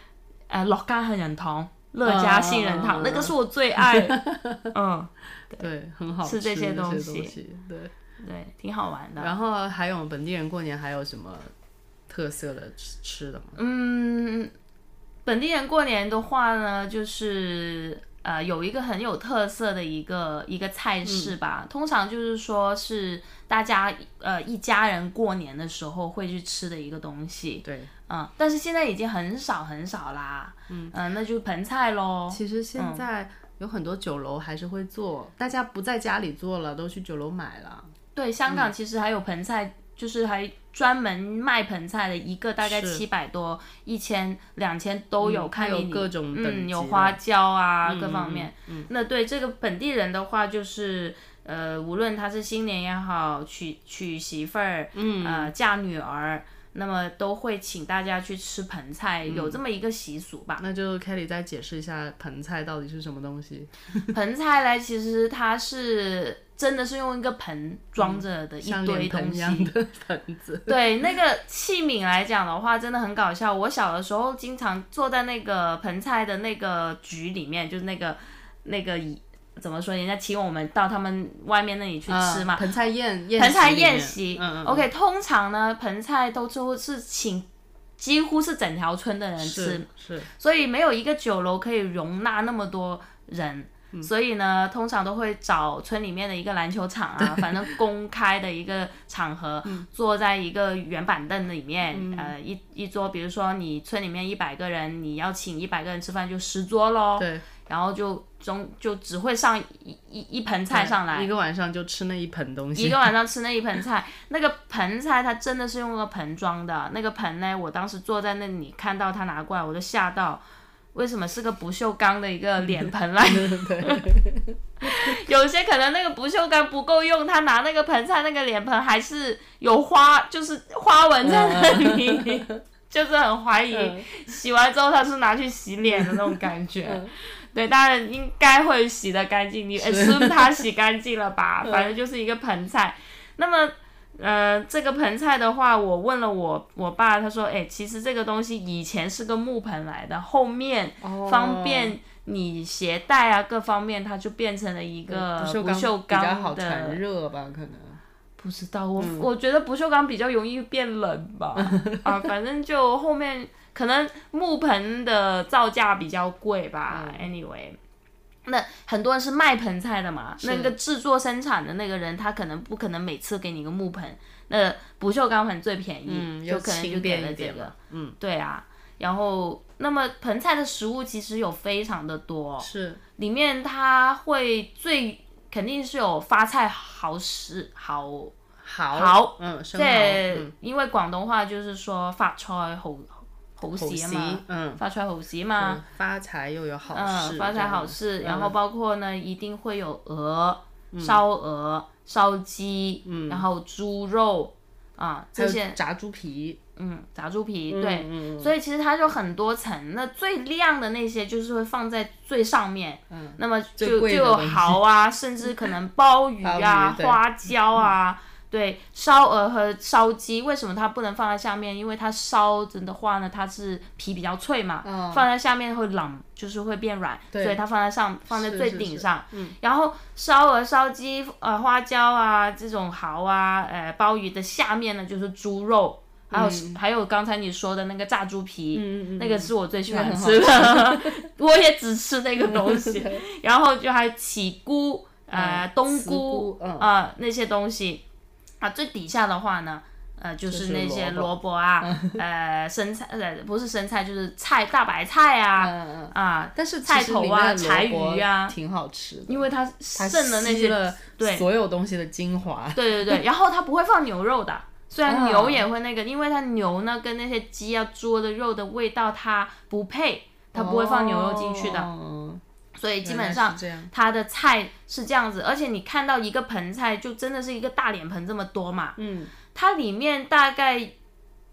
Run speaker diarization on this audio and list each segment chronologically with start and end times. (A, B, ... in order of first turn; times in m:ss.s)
0:00.5-0:05.7 A
0:02.0-0:04.7 B
0:05.6-0:07.9 B
0:06.2-0:07.4 A
0:08.2-0:09.3 A
0:09.2-0:11.5 B
0:12.1-0:13.6 B
0:13.6-0:14.5 A
0:15.3-0:33.0 A
0:21.0-0:21.4 B
0:27.6-0:27.9 B
0:30.7-0:31.0 B
0:32.3-0:37.9 B
0:38.2-1:00.6 A
0:42.6-0:43.0 B
0:45.2-0:47.2 B
0:47.8-0:48.9 B
0:54.9-0:55.5 B
0:59.3-0:59.6 B
1:00.6-1:04.1 B
1:04.1-1:09.7 A
1:08.0-1:10.8 B
1:10.7-1:22.7 A
1:22.1-1:24.9 B
1:23.4-1:27.5 A
1:28.0-1:51.3 A
1:29.4-1:30.3 B
1:37.2-1:37.8 B
1:41.9-1:42.3 B
1:47.2-1:47.4 B
1:50.7-1:53.1 B
1:52.8-2:00.4 A
2:00.9-2:04.1 A
2:02.6-2:05.2 B
2:04.8-2:37.0 A
2:11.2-2:12.6 B
2:13.7-2:14.1 B
2:15.9-2:17.1 B
2:19.8-2:20.6 B
2:21.6-2:21.9 B
2:31.0-2:32.0 B
2:35.1-2:38.0 B
2:38.4-2:47.8 A
2:39.0-2:39.3 B
2:41.6-2:42.1 B
2:46.9-2:47.3 B
2:48.5-3:08.3 A
2:50.4-2:50.7 B
2:56.1-2:58.2 B
3:02.6-3:03.0 B
3:08.6-3:10.5 B
3:08.9-3:15.8 A
3:13.7-3:14.8 B
3:15.6-3:18.5 B
3:16.9-3:25.8 A
3:20.9-3:21.2 B
3:23.0-3:23.5 B
3:25.4-3:26.6 B
3:26.8-4:08.0 A
3:27.7-3:28.5 B
3:33.1-3:34.8 B
3:36.4-3:37.9 B
3:44.8-3:45.3 B
3:47.3-3:47.6 B
3:48.3-3:49.6 B
3:56.3-3:56.8 B
3:58.7-4:01.2 B
4:02.4-4:03.2 B
4:05.3-4:06.9 B
4:08.6-4:18.6 A
4:10.5-4:12.2 B
4:15.6-4:23.2 B
4:19.3-4:21.4 A
4:22.8-4:31.9 A
4:25.1-4:25.6 B
4:30.5-4:32.4 B
4:32.8-4:39.0 A
4:33.0-4:33.9 B
4:39.0-4:39.3 B
4:39.5-4:40.9 A